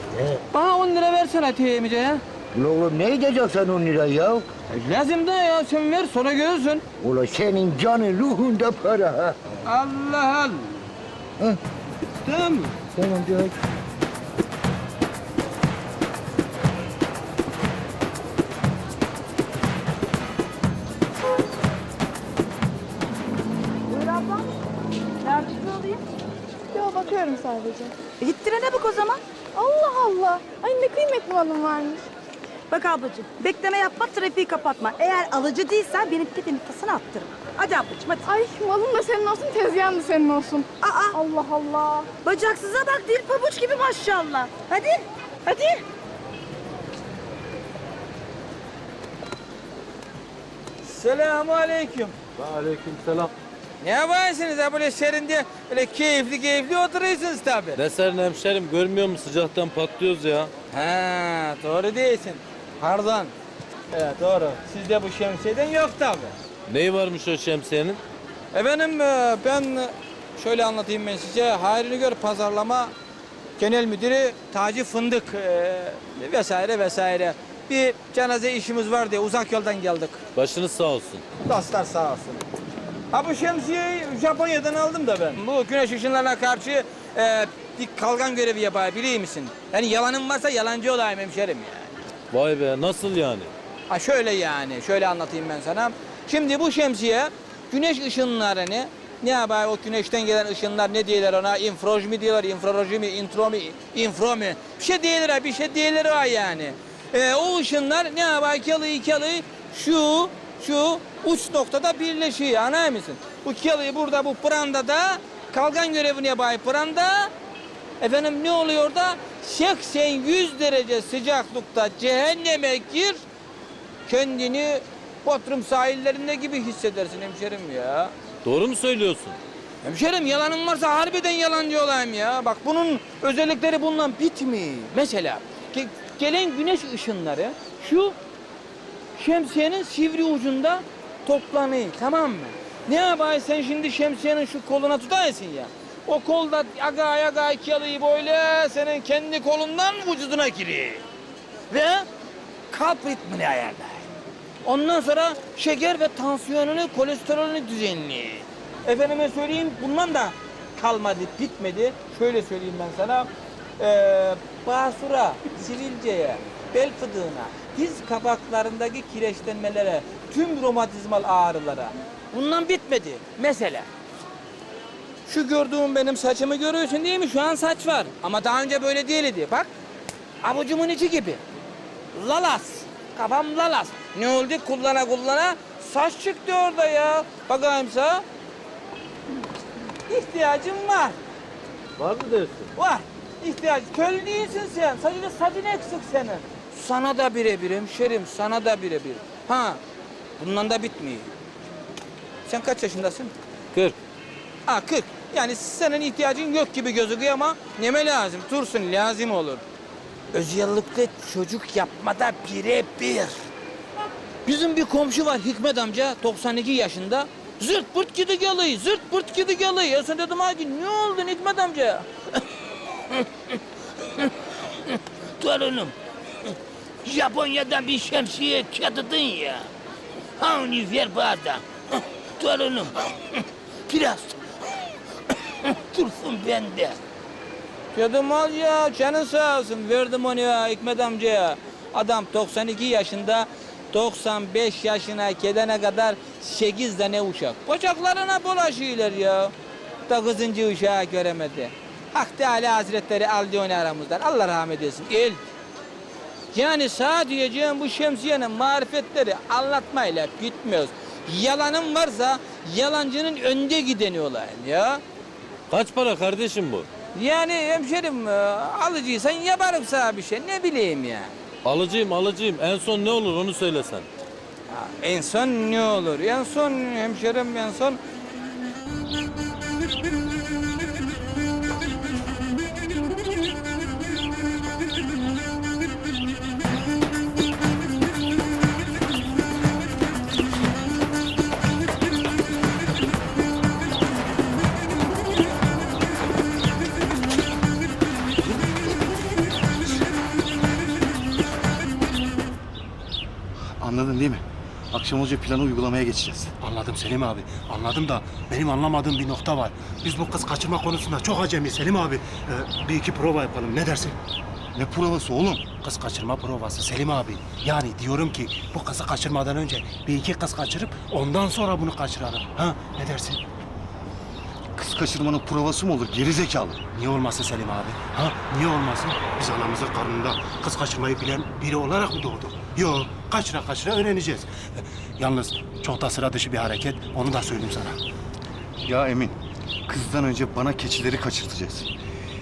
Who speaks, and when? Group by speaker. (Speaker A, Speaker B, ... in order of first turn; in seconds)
Speaker A: 0.1-0.4, 2.5-4.5, 7.0-9.4, 12.9-13.6
Speaker B: 0.5-2.2, 4.7-6.8, 9.7-10.8, 12.2-12.8, 50.8-52.2, 53.8-57.8, 60.7-63.3, 63.9-66.3, 68.5-72.9, 73.6-80.2, 81.5-82.5, 83.1-91.9, 93.9-117.3, 118.0-123.2, 124.1-128.1, 129.8-138.2, 139.2-151.0, 151.7-152.1, 152.7-154.1, 154.6-173.9, 175.3-179.7, 180.4-181.4, 182.1-188.2, 190.1-191.2, 192.8-199.8, 200.4-201.3, 202.5-203.3, 204.7-209.6, 210.3-213.5, 214.4-222.4, 224.0-225.9, 227.0-229.7, 230.4-234.4, 235.4-237.0, 237.9-249.5, 250.1-255.4, 256.5-265.0, 267.1-271.3, 274.7-278.0
Speaker C: 23.9-24.5, 25.2-26.1, 28.2-29.2, 32.7-38.3, 40.8-41.2, 42.2-45.8
Speaker D: 26.7-27.9, 29.6-32.0, 38.2-42.1
Speaker E: 52.4-53.3, 57.8-60.5, 66.7-68.0, 80.3-81.2, 92.3-93.5, 128.4-129.4, 192.0-192.7, 265.7-266.9, 271.6-274.1
Speaker F: 303.8-306.5, 314.8-315.7, 324.8-326.8, 338.8-339.4, 339.9-341.9
Speaker G: 306.6-314.2, 315.8-323.4, 326.9-338.0